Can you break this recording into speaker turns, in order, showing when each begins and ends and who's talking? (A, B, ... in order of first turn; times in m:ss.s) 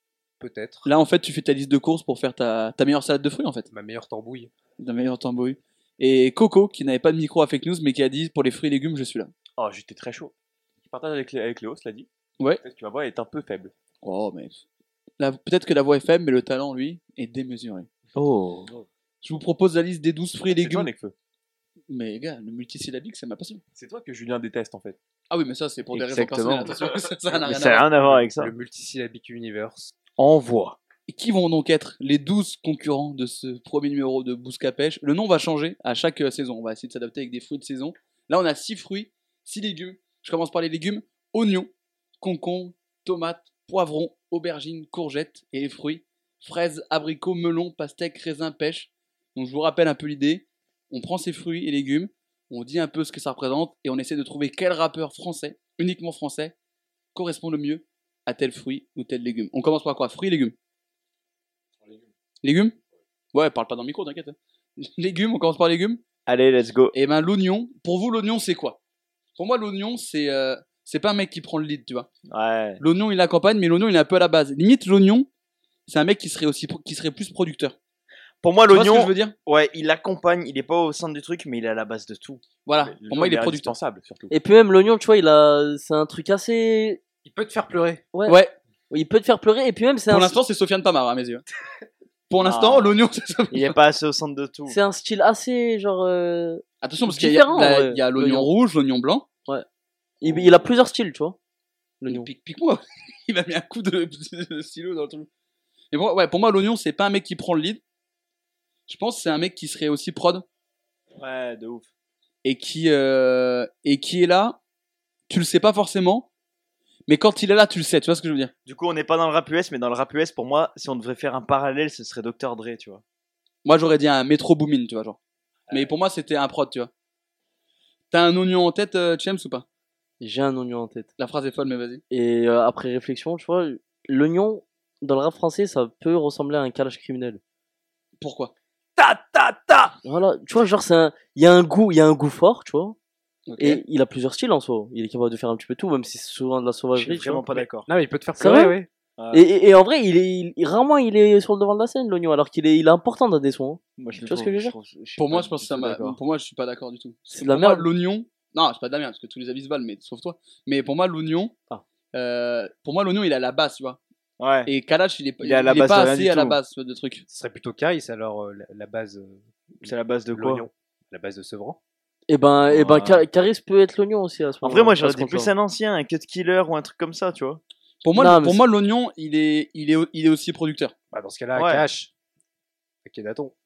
0:00.4-0:00.9 A
0:00.8-0:03.7 B
0:03.7-0:04.5 A
0:04.8-0:09.3 B
0:09.6-0:10.3 C
0:10.8-0:12.1 C
0:12.6-0:13.7 C
0:14.0-0:14.6 B
0:15.2-0:17.9 B
0:18.1-0:18.7 D
0:19.2-0:20.9 B
0:20.5-0:21.1 C
0:21.9-0:23.6 B
0:23.7-0:25.0 C
0:25.3-0:27.8 B
0:25.9-0:26.7 D
0:27.4-0:28.5 D
0:28.0-0:30.0 A
0:30.2-0:30.8 D
0:31.1-0:56.5 B
0:57.1-1:00.5 B
1:02.4-1:02.7 B
1:03.3-1:06.0 B
1:06.3-1:07.0 D
1:06.9-1:08.8 B
1:09.4-1:12.1 B
1:12.3-1:12.8 D
1:12.8-1:15.3 B
1:15.9-1:17.8 B
1:18.4-1:22.4 D
1:18.7-1:19.4 B
1:22.6-1:23.7 B
1:22.8-1:24.4 C
1:24.3-1:27.0 E
1:27.2-1:28.0 A
1:28.1-1:28.4 E
1:28.3-1:28.6 B
1:28.9-1:30.4 E
1:30.1-1:31.4 B
1:32.3-1:33.7 B
1:32.4-1:33.0 D
1:33.5-1:34.8 D
1:34.7-1:38.5 E
1:36.8-1:39.3 B
1:40.2-1:41.4 E
1:42.0-1:42.3 E
1:42.0-1:45.3 B
1:45.9-1:47.8 B
1:48.9-1:50.4 B
1:51.2-1:51.9 D
1:52.4-1:54.6 B
1:55.3-1:56.3 B
1:57.1-1:58.5 B
1:58.6-2:03.0 D
2:03.6-2:05.2 B
2:05.7-2:06.9 B
2:08.1-2:09.6 B
2:10.2-2:11.1 E
2:11.2-2:12.0 B
2:12.1-2:17.4 E
2:18.2-2:18.5 B
2:19.0-2:19.9 D
2:20.0-2:23.0 E
2:23.5-2:23.8 B
2:23.6-2:27.4 E
2:26.9-2:27.9 D
2:27.5-2:28.9 A
2:28.4-2:28.8 E
2:29.2-2:29.4 D
2:29.3-2:34.8 E
2:34.0-2:36.2 D
2:35.2-2:41.5 B
2:37.3-2:37.8 E
2:42.1-2:44.0 B
2:44.4-2:44.7 D
2:44.7-2:47.2 B
2:45.4-2:46.6 D
2:47.3-2:51.8 A
2:49.8-2:50.7 D
2:52.3-2:55.5 E
2:52.7-2:53.2 D
2:54.6-2:57.6 D
2:58.0-3:00.9 B
2:58.1-2:58.6 E
3:01.1-3:02.1 A
3:01.5-3:01.8 D
3:03.0-3:03.5 A